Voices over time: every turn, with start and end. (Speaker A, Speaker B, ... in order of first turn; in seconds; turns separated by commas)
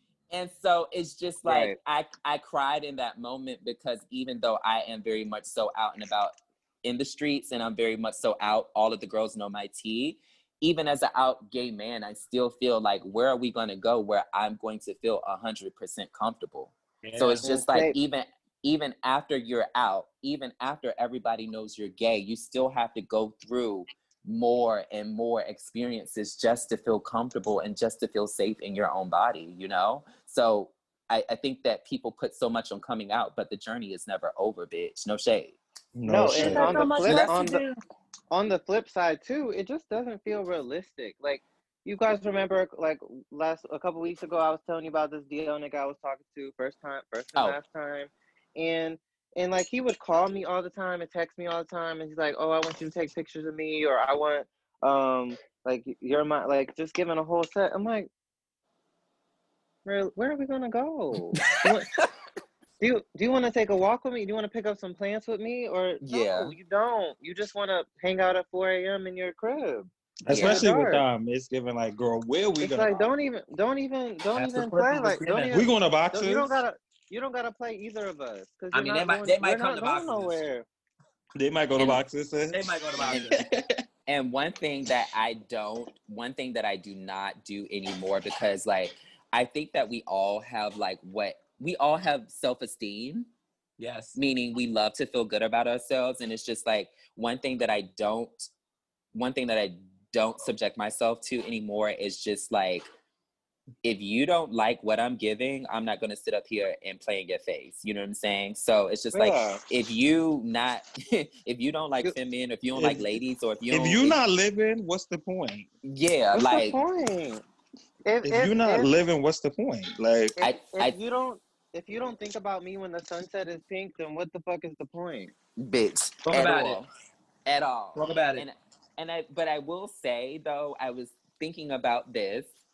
Speaker A: 0.3-35.6, Speaker B: 1.4-1.8, Speaker C: 17.0-17.4, Speaker B: 17.4-17.9, Speaker D: 35.9-36.8, Speaker B: 36.0-37.6, Speaker C: 36.3-37.8, Speaker A: 37.0-37.3, Speaker B: 38.3-58.1, Speaker B: 59.8-61.9, Speaker A: 61.4-62.0, Speaker B: 62.8-71.0, Speaker A: 66.0-66.5, Speaker D: 70.2-73.1, Speaker A: 70.3-70.7, Speaker B: 72.6-80.7, Speaker C: 74.3-75.5, Speaker D: 75.5-76.6, Speaker C: 78.7-80.4, Speaker D: 81.3-83.7, Speaker C: 82.5-83.4, Speaker A: 83.0-83.3, Speaker A: 84.1-93.3, Speaker C: 93.8-94.2, Speaker A: 94.2-98.5, Speaker A: 99.1-102.9, Speaker A: 103.8-114.2, Speaker B: 109.1-109.6, Speaker D: 112.7-113.2, Speaker D: 113.7-115.7, Speaker A: 115.8-116.8, Speaker B: 116.3-117.4, Speaker B: 118.0-118.9, Speaker D: 118.2-120.3, Speaker B: 120.4-125.3, Speaker A: 120.4-121.0, Speaker A: 125.6-126.8, Speaker C: 126.2-126.8, Speaker A: 127.4-132.5, Speaker C: 127.9-128.4